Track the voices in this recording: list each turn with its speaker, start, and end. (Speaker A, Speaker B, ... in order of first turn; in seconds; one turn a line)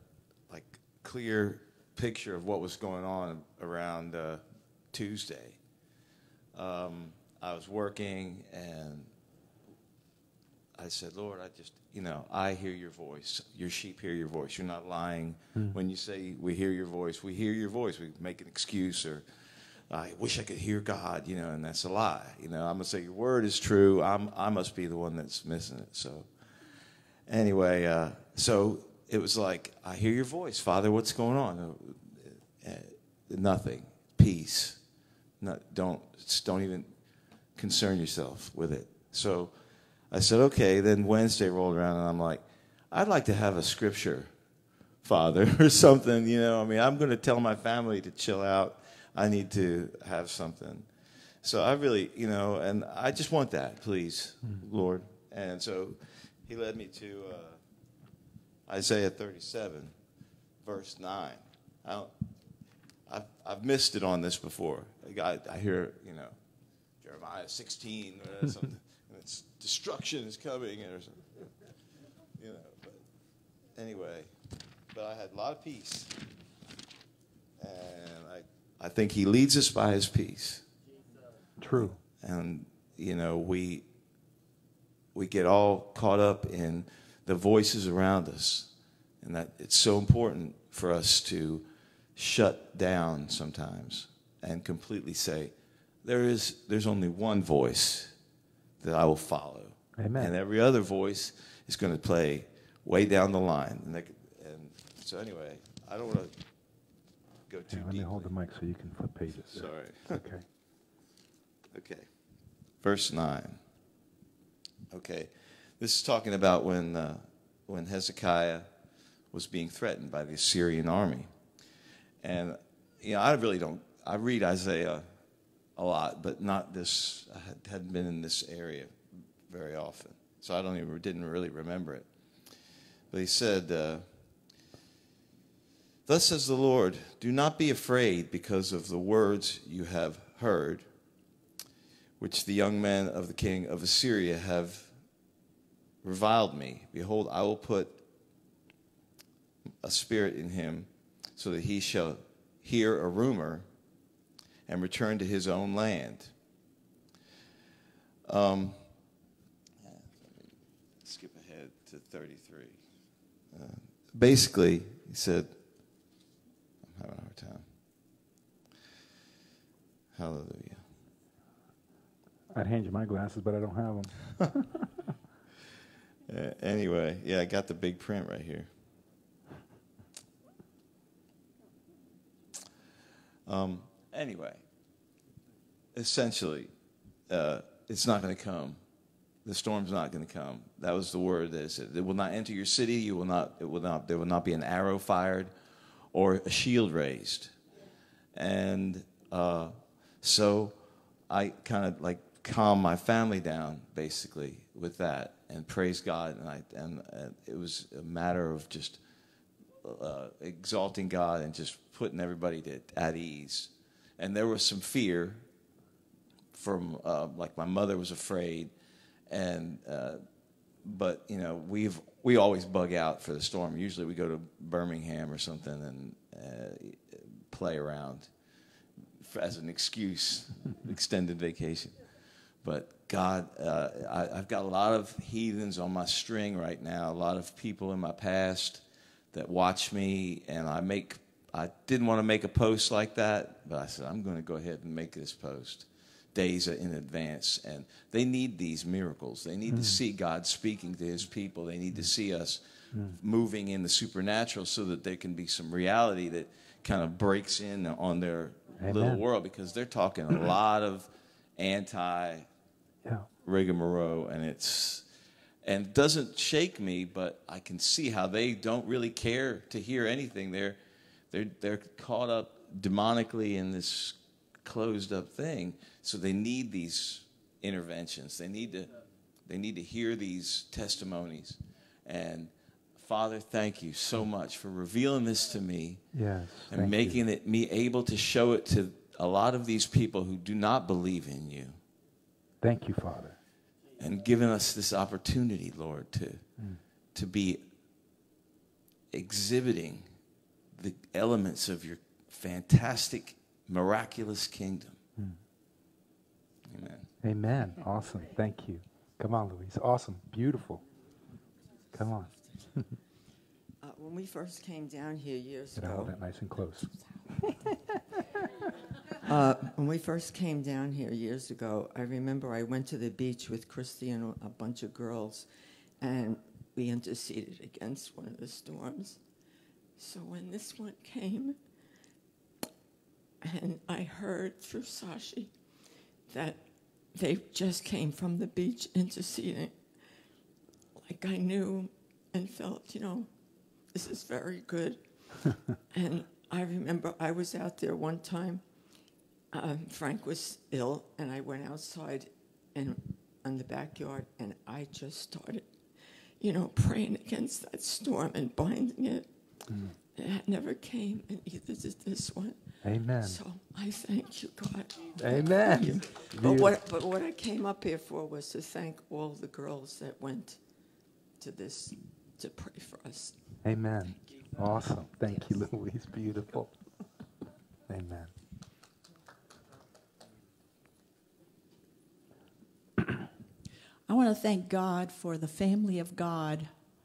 Speaker A: 0.5-5.6
Speaker A: 6.5-9.1
Speaker A: 10.8-19.3
Speaker A: 19.9-26.3
Speaker A: 27.3-34.8
Speaker A: 35.4-36.9
Speaker A: 37.5-39.5
Speaker A: 40.1-44.3
Speaker A: 45.0-50.9
Speaker A: 51.4-57.6
Speaker A: 58.7-60.0
Speaker A: 60.6-62.1
Speaker A: 63.1-66.4
Speaker A: 67.0-71.6
Speaker A: 72.4-73.0
Speaker A: 73.7-74.3
Speaker A: 74.9-76.2
Speaker A: 77.6-80.6
Speaker B: 81.6-82.0
Speaker A: 81.7-83.8
Speaker A: 85.1-95.5
Speaker A: 96.0-98.2
Speaker A: 98.8-106.3
Speaker B: 100.0-100.3
Speaker A: 107.5-108.3
Speaker B: 107.7-110.4
Speaker A: 109.4-110.2
Speaker A: 111.7-113.6
Speaker A: 114.9-118.7
Speaker A: 119.3-121.3
Speaker A: 122.2-125.1
Speaker A: 125.8-132.1
Speaker A: 133.1-134.1
Speaker A: 136.1-140.9
Speaker A: 142.2-145.0
Speaker A: 146.0-148.0
Speaker A: 149.8-153.7
Speaker A: 154.7-156.3
Speaker A: 158.3-158.9
Speaker A: 159.8-162.8
Speaker A: 163.5-165.5
Speaker A: 166.9-167.7
Speaker A: 170.1-170.8
Speaker B: 172.5-174.9
Speaker A: 176.3-178.7
Speaker A: 183.5-184.6
Speaker A: 185.9-186.7
Speaker A: 187.3-188.8
Speaker A: 189.4-195.5
Speaker A: 196.1-197.5
Speaker A: 198.3-209.0
Speaker A: 209.8-215.4
Speaker A: 216.5-218.7
Speaker A: 219.3-220.2
Speaker A: 220.8-228.3
Speaker A: 229.2-262.5
Speaker B: 249.7-250.0
Speaker B: 252.9-253.2
Speaker B: 258.8-259.2
Speaker A: 263.4-265.1
Speaker A: 265.6-270.8
Speaker A: 271.3-291.8
Speaker B: 286.1-287.2
Speaker B: 292.6-293.4
Speaker A: 294.0-296.6
Speaker A: 297.1-297.6
Speaker A: 299.1-300.1
Speaker A: 300.8-305.0
Speaker A: 306.7-307.1
Speaker B: 307.2-310.8
Speaker B: 311.9-312.9
Speaker C: 313.8-316.2
Speaker B: 315.8-316.9
Speaker C: 319.2-331.7
Speaker C: 333.4-340.4
Speaker C: 340.9-370.8
Speaker B: 359.7-359.9
Speaker B: 362.8-363.4
Speaker B: 365.2-366.8
Speaker C: 371.4-373.4
Speaker B: 373.6-376.8
Speaker B: 377.9-378.3
Speaker D: 384.1-386.7